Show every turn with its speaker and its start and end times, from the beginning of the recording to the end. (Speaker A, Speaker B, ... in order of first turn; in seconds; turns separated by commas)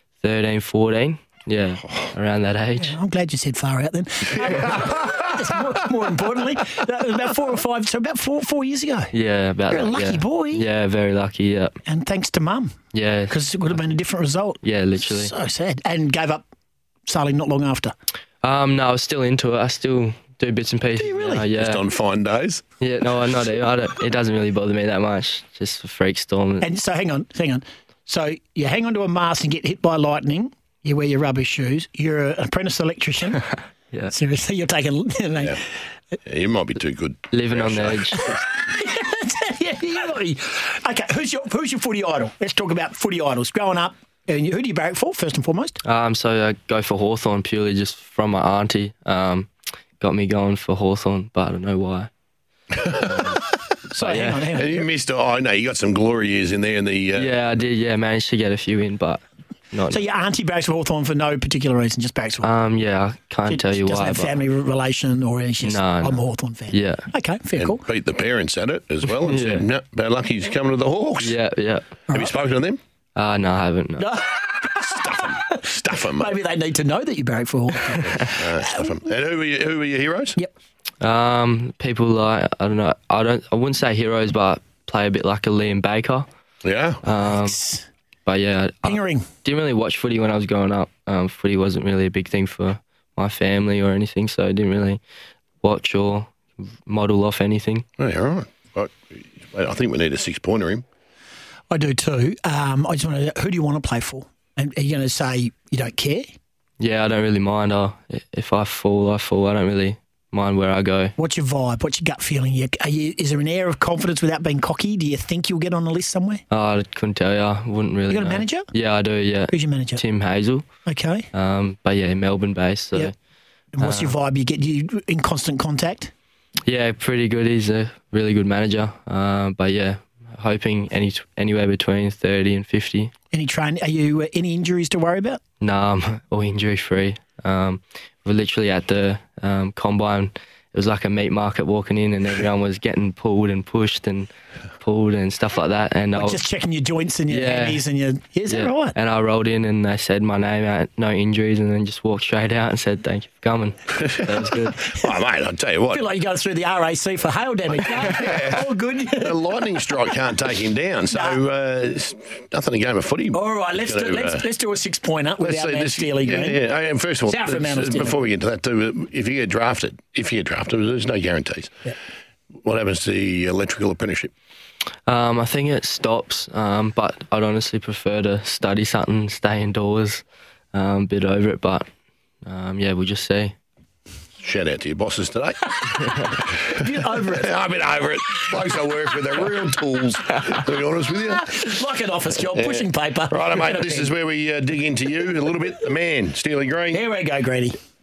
Speaker A: 0.2-2.9, Speaker B: 2.8-9.1, Speaker A: 9.1-11.7, Speaker B: 9.7-10.7, Speaker B: 11.8-12.7, Speaker A: 12.9-13.3, Speaker B: 13.3-16.4, Speaker A: 14.6-15.3, Speaker B: 17.1-17.9, Speaker A: 18.4-21.8, Speaker B: 21.0-21.4, Speaker C: 21.5-22.6, Speaker A: 22.8-26.7, Speaker B: 26.6-33.4, Speaker B: 34.1-35.6, Speaker C: 36.2-38.1, Speaker A: 37.3-38.4, Speaker B: 38.1-45.8, Speaker A: 45.8-52.1, Speaker A: 52.8-53.4, Speaker B: 53.9-54.9, Speaker A: 54.0-54.5, Speaker C: 54.5-57.3, Speaker A: 57.1-60.0, Speaker B: 59.9-62.5, Speaker A: 62.4-64.3, Speaker B: 63.5-67.8, Speaker A: 65.6-67.0, Speaker C: 67.6-71.3, Speaker A: 69.1-69.7, Speaker A: 71.2-71.9, Speaker B: 72.1-72.4, Speaker C: 72.1-72.8, Speaker A: 73.1-74.1, Speaker B: 74.0-79.0, Speaker C: 74.8-76.4, Speaker C: 78.2-80.4, Speaker A: 81.0-86.3, Speaker C: 86.6-87.0, Speaker A: 87.0-87.6, Speaker B: 87.3-87.8, Speaker A: 88.2-95.0, Speaker B: 88.8-89.2, Speaker A: 95.6-97.8, Speaker C: 98.0-100.8, Speaker B: 101.7-106.3, Speaker A: 106.8-111.1, Speaker B: 111.2-116.4, Speaker A: 116.5-120.7, Speaker B: 118.1-118.7, Speaker B: 119.5-120.0, Speaker B: 120.8-121.3, Speaker A: 121.3-123.1, Speaker B: 123.7-126.1, Speaker A: 123.8-124.1, Speaker A: 126.7-133.1, Speaker B: 133.3-135.4, Speaker A: 135.6-144.3, Speaker A: 144.8-146.4, Speaker B: 146.1-148.9, Speaker A: 147.3-147.8, Speaker A: 148.5-154.9, Speaker C: 155.0-156.0, Speaker B: 155.9-160.3, Speaker C: 157.8-164.4, Speaker B: 161.1-161.4, Speaker B: 163.3-166.6, Speaker C: 165.4-171.9, Speaker B: 167.2-168.2, Speaker C: 172.6-174.3, Speaker A: 175.1-181.8, Speaker A: 182.4-183.6, Speaker C: 184.4-186.0, Speaker B: 185.9-187.6, Speaker C: 186.6-191.6, Speaker B: 191.3-194.1, Speaker C: 192.5-197.0, Speaker B: 196.9-197.8